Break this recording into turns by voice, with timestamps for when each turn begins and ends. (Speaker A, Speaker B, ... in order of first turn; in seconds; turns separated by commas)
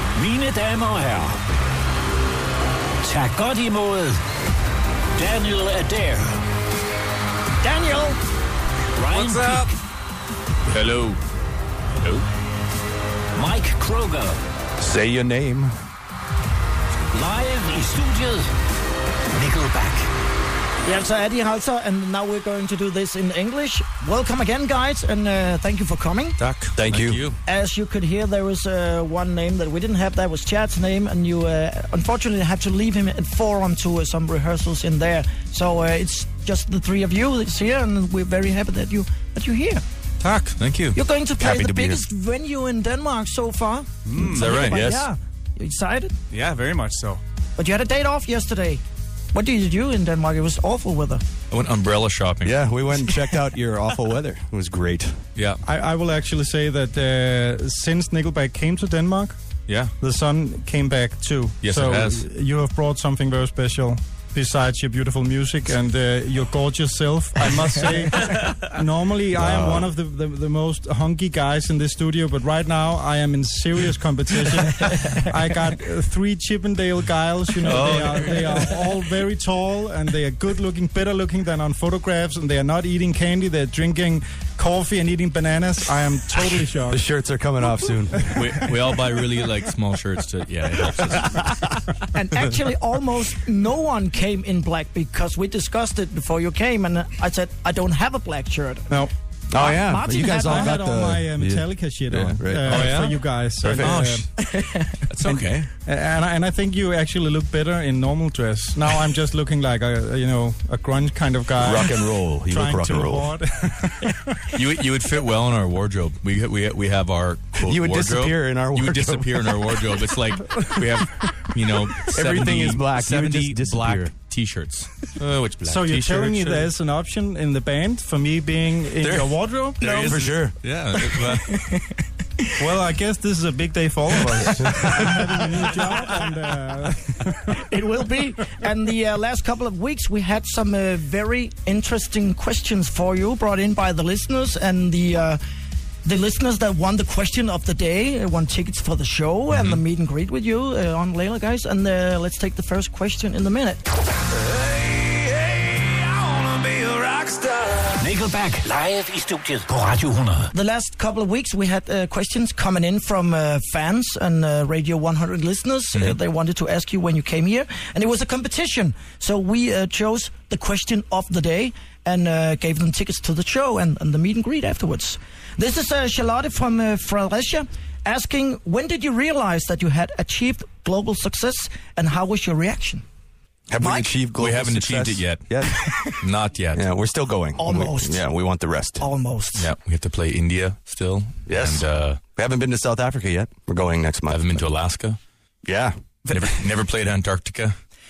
Speaker A: 0.1-1.4, Speaker A: 3.0-4.2, Speaker A: 5.2-6.4, Speaker B: 7.6-8.2, Speaker A: 9.0-9.7, Speaker C: 9.3-9.7, Speaker D: 10.7-11.2, Speaker A: 13.4-14.4, Speaker E: 14.8-15.7, Speaker A: 17.1-18.5, Speaker A: 19.4-20.1, Speaker B: 20.8-26.4, Speaker D: 26.4-27.4, Speaker E: 26.8-27.3, Speaker B: 27.5-39.8, Speaker D: 40.2-41.0, Speaker B: 40.9-46.1, Speaker E: 41.4-42.0, Speaker C: 44.0-44.6, Speaker D: 44.3-45.1, Speaker C: 46.3-47.2, Speaker B: 47.6-48.8, Speaker B: 49.3-51.2, Speaker D: 51.5-52.7, Speaker E: 52.4-55.2, Speaker D: 55.4-55.6, Speaker F: 55.6-59.4, Speaker D: 59.7-59.9, Speaker F: 60.0-87.1, Speaker D: 61.6-62.3, Speaker E: 69.4-69.9, Speaker D: 77.6-78.5, Speaker E: 86.9-88.7, Speaker F: 88.3-88.8, Speaker D: 88.3-91.7, Speaker B: 92.1-98.9, Speaker E: 99.5-104.0, Speaker B: 99.5-100.8, Speaker F: 100.1-104.3, Speaker D: 102.7-103.1, Speaker D: 103.8-104.3, Speaker B: 104.5-105.0, Speaker D: 105.1-105.7, Speaker F: 105.2-111.9, Speaker E: 111.6-113.3, Speaker F: 112.5-114.4, Speaker D: 114.5-126.7, Speaker E: 117.6-119.5, Speaker E: 122.1-124.1, Speaker F: 125.6-130.0, Speaker D: 129.0-131.7, Speaker E: 129.8-130.6, Speaker B: 131.2-131.9, Speaker F: 132.6-137.6, Speaker E: 134.6-135.1, Speaker B: 137.7-145.4, Speaker B: 146.1-153.8, Speaker D: 149.5-149.8, Speaker A: 157.9-160.5, Speaker B: 160.5-183.0, Speaker E: 183.7-185.8, Speaker B: 183.8-184.1, Speaker D: 184.3-186.9, Speaker E: 186.8-189.1, Speaker B: 187.6-188.3, Speaker B: 189.0-189.7, Speaker D: 189.6-192.2, Speaker E: 191.5-194.4, Speaker D: 194.3-195.2, Speaker E: 195.7-195.9, Speaker C: 196.3-196.6, Speaker D: 196.3-197.8